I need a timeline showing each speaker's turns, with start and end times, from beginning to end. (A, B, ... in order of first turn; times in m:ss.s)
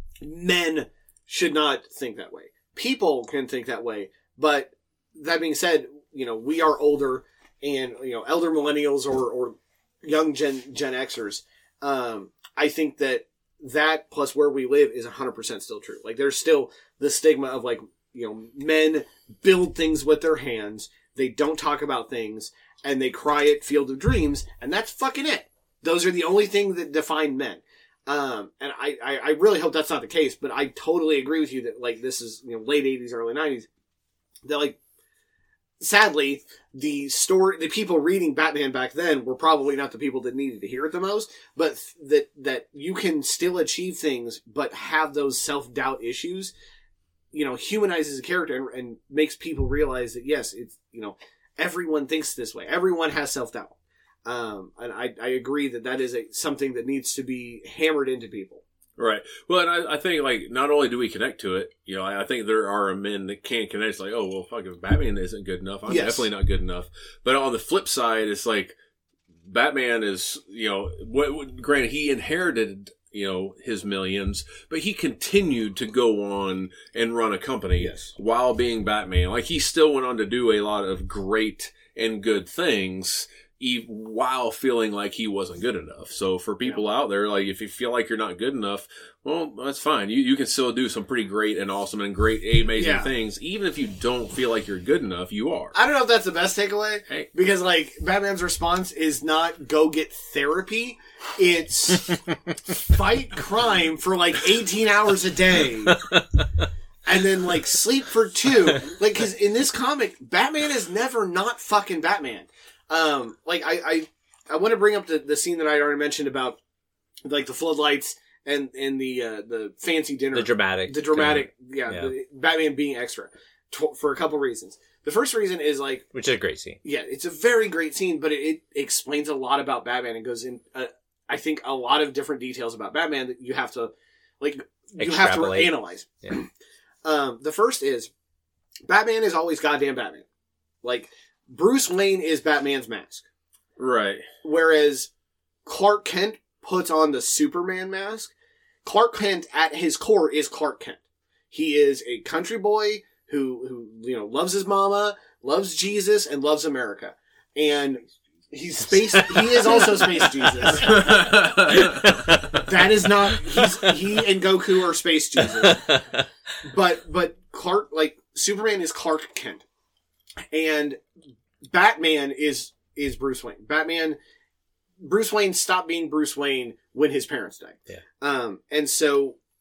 0:00.2-0:33.7 A
0:34.4-0:34.8 A
0:35.8-0:46.5 A
0:47.3-0:58.6 A
0:59.0-1:08.8 B
1:05.9-1:06.3 A
1:09.5-1:35.8 B
1:17.8-1:18.1 A
1:32.8-1:33.1 A
1:35.7-1:42.2 A
1:42.7-1:46.0 A
1:45.9-1:46.4 C
1:47.1-1:56.6 A
1:57.2-2:06.0 A
2:00.3-2:02.1 C
2:06.1-2:06.8 C
2:06.8-2:16.5 A
2:15.0-2:16.4 C
2:17.0-2:18.1 A
2:18.9-2:20.2 A
2:20.8-2:23.2 A
2:23.8-2:24.3 B
2:24.4-2:25.1 A
2:25.7-2:28.3 A
2:28.8-2:31.0 A
2:31.5-2:41.2 A
2:38.9-2:41.0 C
2:40.6-2:42.2 B
2:41.7-2:42.7 C
2:42.7-2:45.8 A
2:43.5-2:43.9 C
2:45.4-2:46.2 C
2:46.6-2:49.6 A
2:50.5-2:51.0 A
2:51.7-2:54.2 A
2:55.0-2:59.4 A